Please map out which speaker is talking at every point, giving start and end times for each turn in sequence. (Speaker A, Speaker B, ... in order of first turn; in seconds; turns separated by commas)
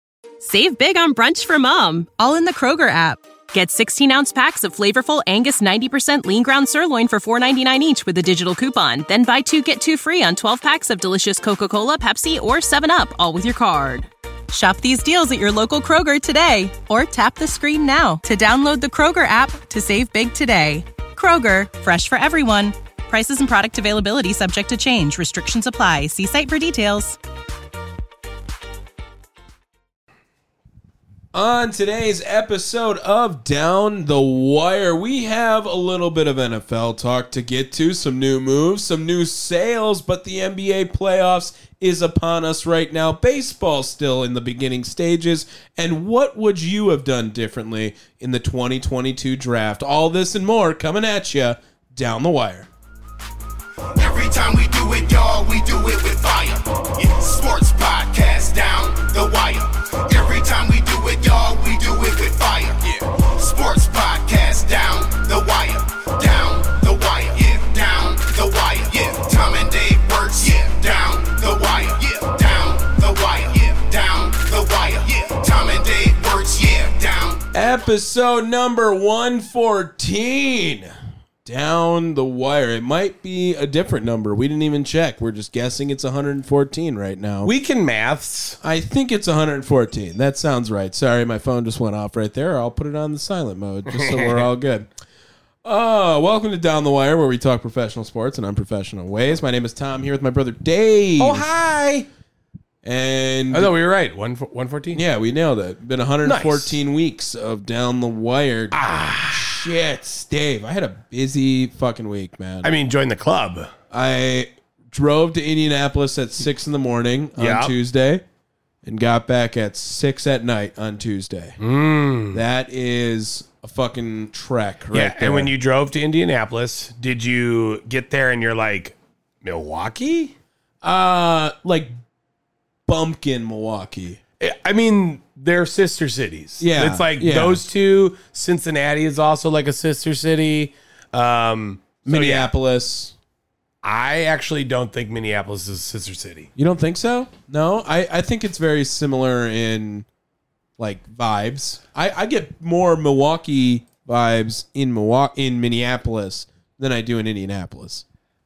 Speaker A: 0.4-27.2, Speaker B: 31.3-52.7, Speaker C: 53.9-77.5, Speaker B: 77.5-80.9, Speaker B: 81.4-87.5, Speaker D: 87.4-88.6, Speaker B: 88.6-94.9, Speaker D: 93.9-94.5, Speaker B: 95.6-101.5, Speaker D: 101.2-102.1, Speaker B: 102.8-103.7, Speaker D: 103.5-105.0, Speaker B: 104.9-112.7, Speaker D: 106.2-106.8, Speaker D: 108.7-109.6, Speaker D: 112.6-113.7, Speaker B: 113.9-118.2, Speaker D: 117.4-117.7, Speaker B: 118.8-121.6, Speaker D: 121.6-122.4, Speaker B: 122.3-125.5, Speaker D: 124.9-130.3, Speaker B: 130.8-132.0, Speaker B: 132.9-134.2, Speaker D: 134.4-142.5, Speaker B: 136.6-137.7, Speaker B: 142.0-143.1, Speaker D: 143.8-146.5, Speaker B: 146.6-150.1, Speaker B: 150.8-158.0